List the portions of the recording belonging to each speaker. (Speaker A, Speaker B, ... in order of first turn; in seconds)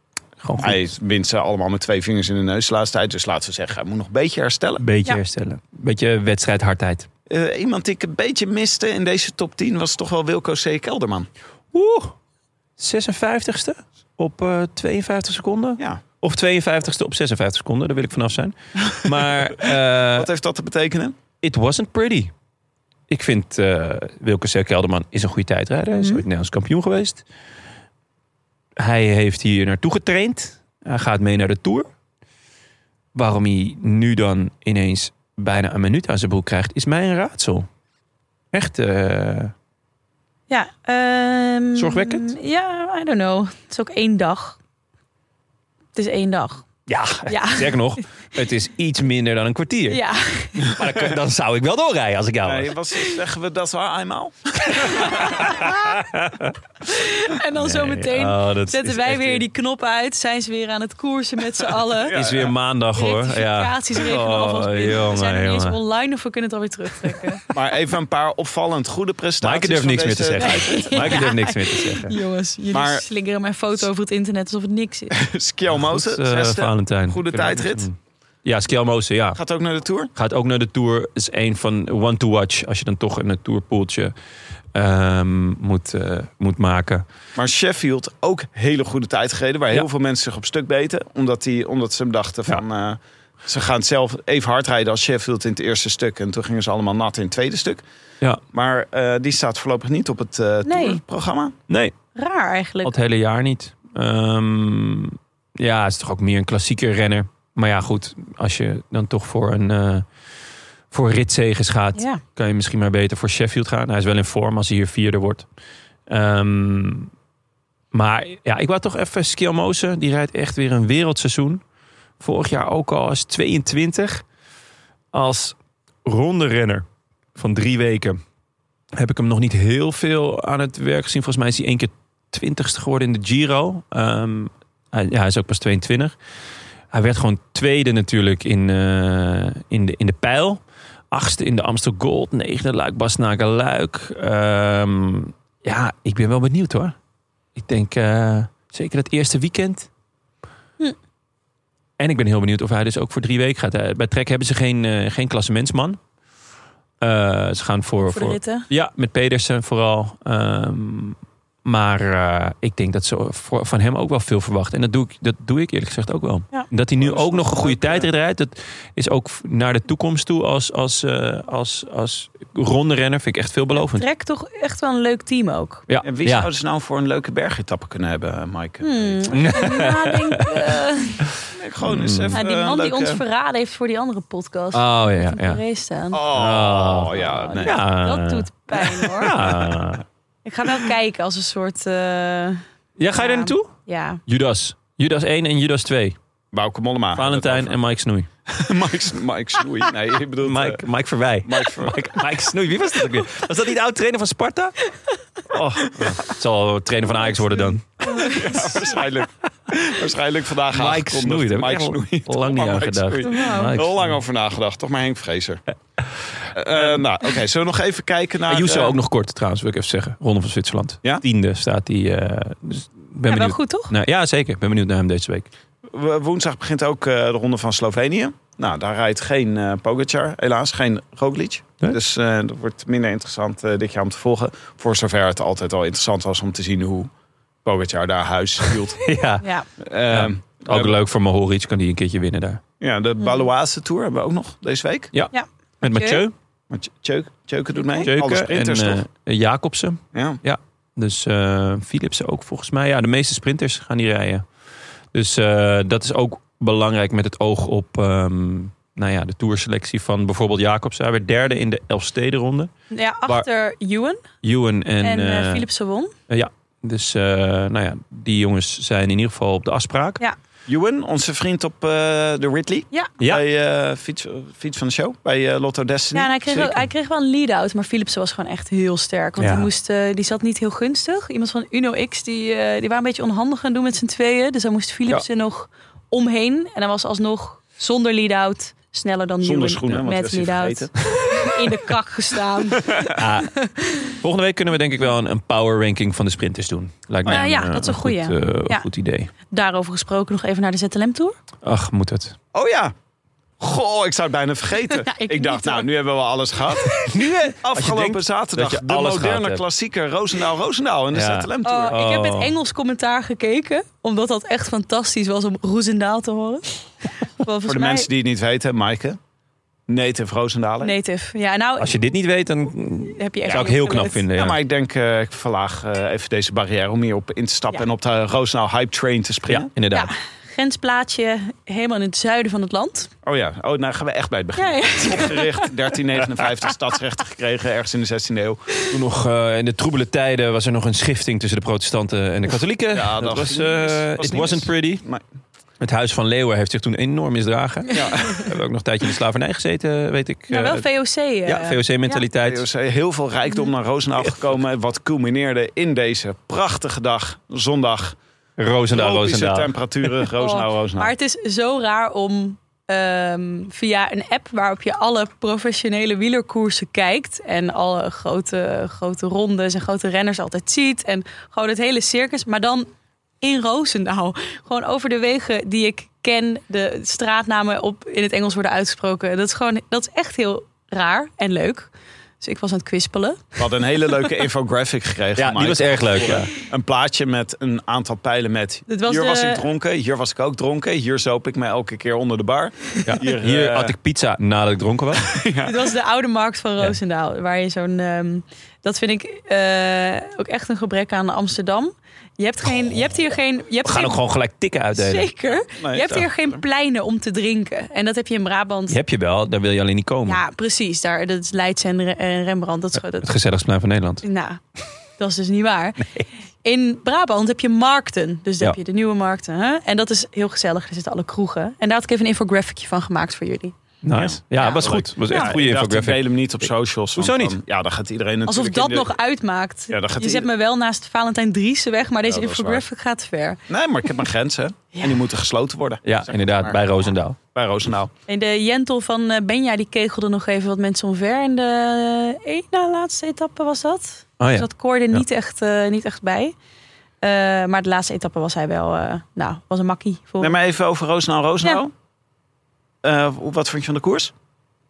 Speaker A: 0.4-0.8, 4.8-7.1, 11.7-12.1, 12.8-20.3, 21.4-22.3, 23.1-27.2, 28.8-31.9, 33.1-37.7, 38.5-39.5, 41.8-42.3, 46.9-50.0, 50.6-52.7, 55.2-56.5, 57.5-59.4, 62.1-65.8, 69.4-72.1, 75.7-79.4, 80.1-84.1, 84.7-87.0, 101.7-101.9, 102.8-110.0, 110.9-115.5, 116.1-117.1, 117.9-121.6, 122.2-124.2, 125.1-126.8, 127.4-128.2, 128.9-136.2, 136.9-146.9, 147.6-149.9, 152.0-156.0, 157.0-174.0, 175.9-176.5, 179.3-180.7, 181.8-182.4, 184.7-185.6, 186.3-190.0, 193.0-193.7, 194.3-196.2, 197.1-198.3, 200.4-204.8, 205.5-208.7, 210.7-214.2, 216.7-217.0, 218.5-225.5, 239.0-239.4, 240.1-242.6, 245.1-246.3, 248.0-254.4, 255.1-262.7, 264.4-265.7, 266.3-270.2, 279.4-279.7, 293.1-299.3, 301.6-302.4, 306.9-309.6, 311.1-312.5, 321.8-324.6, 329.5-330.1, 338.9-345.0, 345.8-350.8, 351.4-352.6, 358.6-360.2, 385.4-386.5, 393.1-395.3, 403.8-405.3, 408.9-410.4, 413.2-414.2, 424.0-427.6, 436.1-437.4, 444.4-445.2
Speaker B: 0.6-4.8, 7.3-11.3, 20.1-21.2, 52.4-55.6, 62.0-62.5, 67.5-71.3, 72.7-73.0, 75.1-77.9, 79.4-80.1, 87.4-97.8, 98.5-101.5, 167.0-168.1, 176.0-179.6, 181.5-183.2, 186.1-187.8, 196.5-197.8, 198.5-200.8, 201.4-201.9, 205.9-206.2, 208.2-215.6, 216.5-219.0, 225.9-237.1, 237.6-239.0, 239.8-240.9, 242.8-245.1, 246.7-249.0, 250.1-250.4, 270.7-276.7, 289.4-291.4, 292.8-293.2, 302.5-302.9, 303.6-311.9, 317.7-319.2, 319.9-320.9, 324.3-329.7, 333.2-338.7, 342.9-345.2, 347.9-348.5, 352.4-358.2, 358.9-361.1, 383.6-393.9, 395.2-395.8, 405.8-406.6, 424.1-429.1, 429.9-430.5, 432.3-432.8, 433.7-438.1, 450.4-451.9, 453.0-454.3
Speaker C: 26.0-26.2, 40.5-44.6, 46.0-46.6, 47.3-47.8, 49.9-50.7, 54.8-55.9, 56.8-62.2, 63.0-67.4, 70.4-75.2, 100.6-101.0, 102.2-102.9, 112.0-112.2, 158.1-158.7, 173.8-175.8, 178.8-181.2, 182.3-186.2, 187.2-189.4, 190.4-194.2, 208.0-208.6, 213.2-213.7, 223.3-223.9, 239.4-239.7, 245.3-246.2, 262.9-264.2, 265.0-266.1, 276.1-294.2, 297.3-298.9, 299.5-301.4, 304.9-305.9, 311.6-318.1, 320.8-321.9, 323.1-324.2, 329.9-333.1, 334.6-335.7, 350.5-352.2, 360.4-372.9, 373.4-383.6, 388.9-389.6, 395.6-404.2, 404.9-409.0, 410.3-413.3, 414.2-414.6, 415.2-416.1, 416.6-423.8, 424.6-425.6, 428.4-433.6, 434.9-435.2, 438.3-446.6, 447.2-450.6